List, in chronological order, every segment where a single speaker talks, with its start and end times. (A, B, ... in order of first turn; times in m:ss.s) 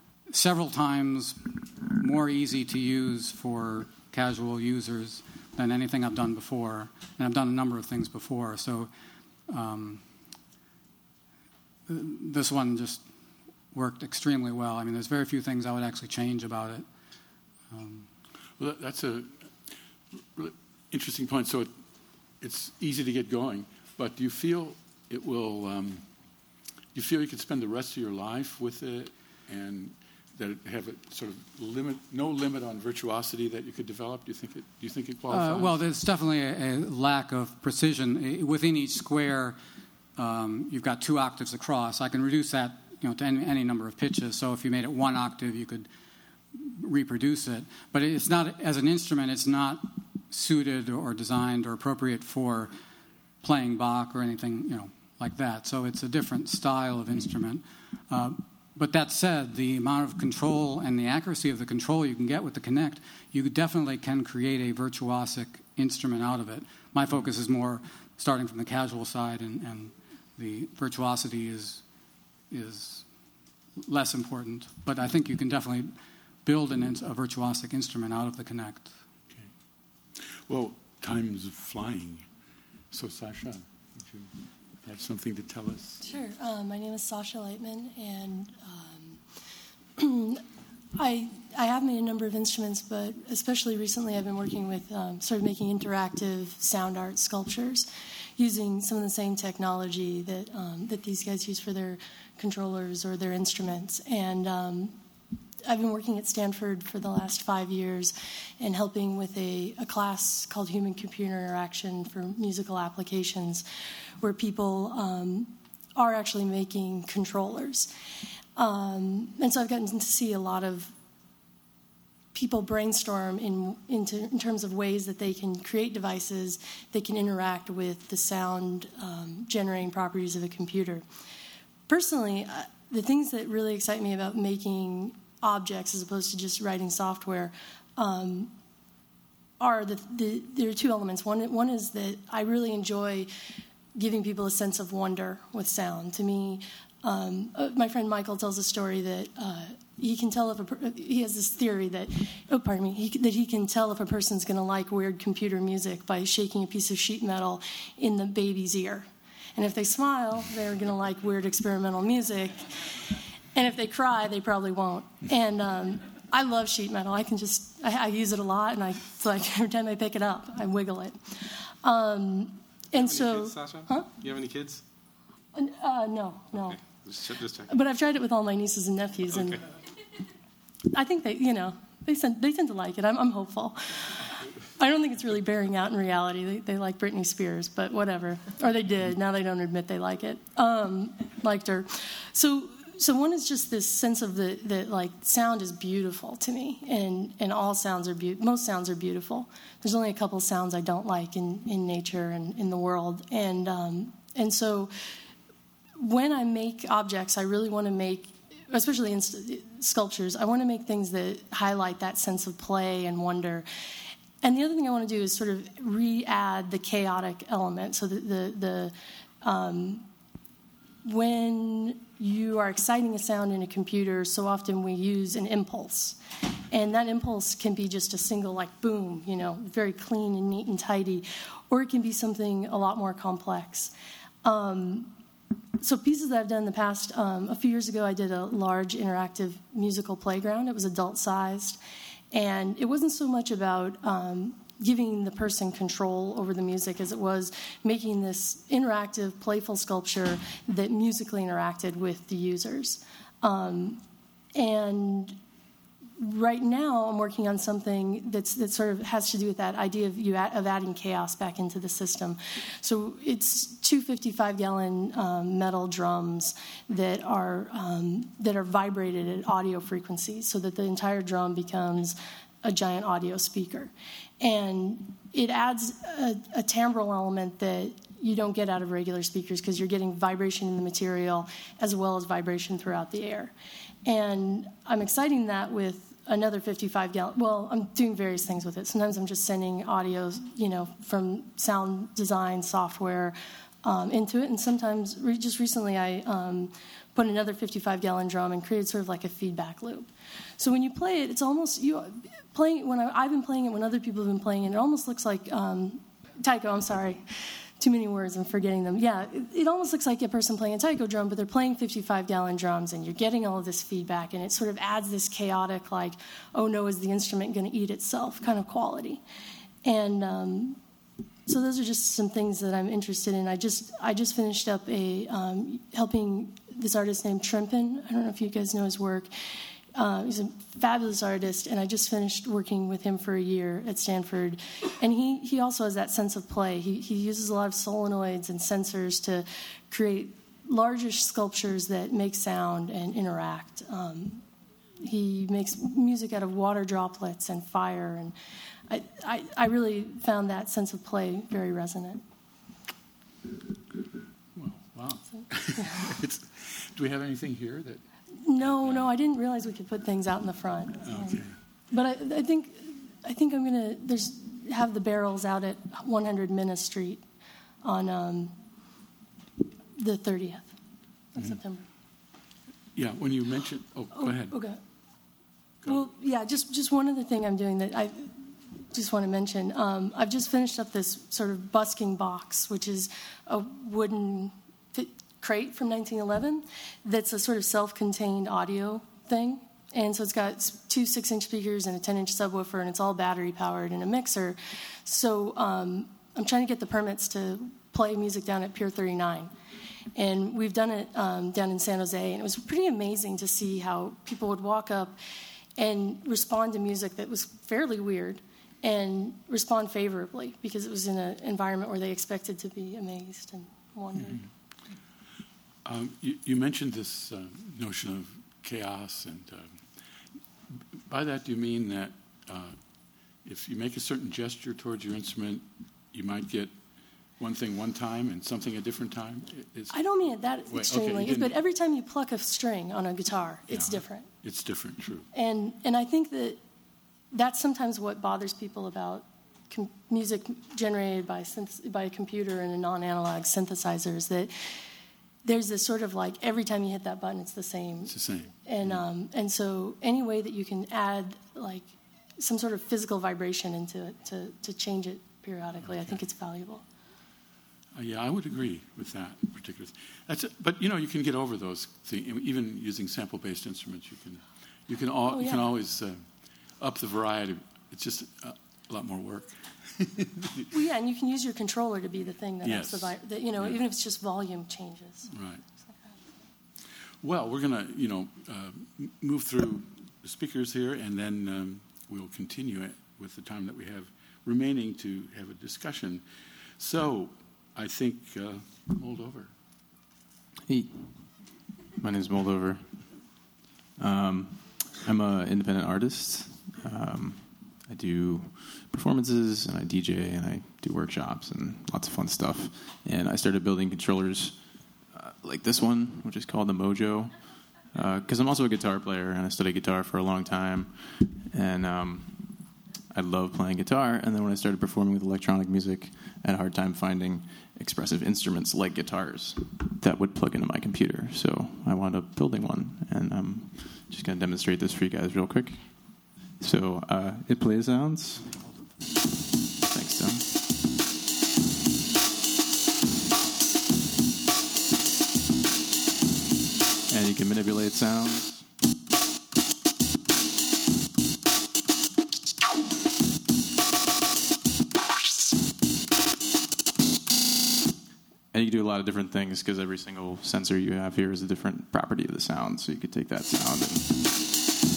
0:00.3-0:08.9 A
0:09.5-0:10.0 A
0:11.9-0:13.0 A
0:13.7-0:16.8 A
0:17.7-0:18.1 A
0:18.6-0:19.7 B
0:20.3-0:21.7 B
0:22.4-0:26.1 B
0:26.9-0:35.8 B
0:35.3-0:39.6 A
0:40.2-0:45.9 A
0:46.5-0:52.7 A
0:53.4-1:11.8 A
1:12.5-1:13.1 A
1:13.8-1:15.9 A
1:16.4-1:18.9 A
1:20.2-1:22.2 B
1:22.9-1:24.3 B
1:24.8-1:26.0 B
1:26.0-1:29.2 C
1:30.0-1:30.4 C
1:31.0-1:45.0 C
1:45.7-1:53.6 C
1:54.2-1:57.9 C
1:58.6-2:00.9 C
2:02.3-2:11.0 C
2:11.9-2:18.5 C
2:19.6-2:23.3 C
2:23.9-2:54.1 C
2:52.9-2:54.8 D
2:55.5-2:56.8 C
2:56.6-2:57.7 D
2:57.7-2:59.6 C
2:59.3-2:59.6 D
3:00.9-3:24.9 C
3:26.0-3:33.6 C
3:34.4-3:40.0 C
3:41.0-3:46.2 C
3:46.7-3:55.1 C
3:55.8-4:01.8 C
4:02.3-4:14.0 C
4:14.5-4:15.4 C
4:16.2-4:43.5 C
4:44.0-5:19.2 C
5:19.8-5:20.8 C
5:21.4-5:29.3 C
5:29.9-5:44.4 C
5:45.0-5:48.3 C
5:48.9-5:52.2 C
5:54.5-5:58.0 B
5:55.4-5:56.2 C
5:58.4-6:07.2 C
5:58.6-5:59.1 B
6:01.0-6:01.5 B
6:07.8-6:08.5 C
6:10.0-6:10.7 C
6:11.3-6:11.9 C
6:13.0-6:14.6 B
6:14.2-6:14.8 C
6:15.8-6:39.5 C
6:40.2-6:45.2 C
6:45.8-6:54.5 C
6:55.8-6:59.8 B
7:01.1-7:02.8 B
7:03.4-7:06.7 B
7:07.4-7:10.0 B
7:09.9-7:14.3 C
7:10.7-7:11.6 B
7:13.7-7:15.3 B
7:15.3-7:16.6 C
7:17.3-7:24.5 C
7:25.4-7:36.8 C
7:28.0-7:29.0 B
7:35.8-7:36.2 B
7:37.9-7:50.7 B
7:45.3-7:45.7 C
7:50.7-7:55.3 C
7:52.6-7:53.8 B
7:55.3-7:55.6 B
7:57.2-8:06.2 B
8:06.8-8:09.5 B
8:10.7-8:13.4 E
8:14.0-8:48.6 E
8:49.8-8:50.6 E
8:57.1-8:58.7 E
9:08.5-9:14.5 E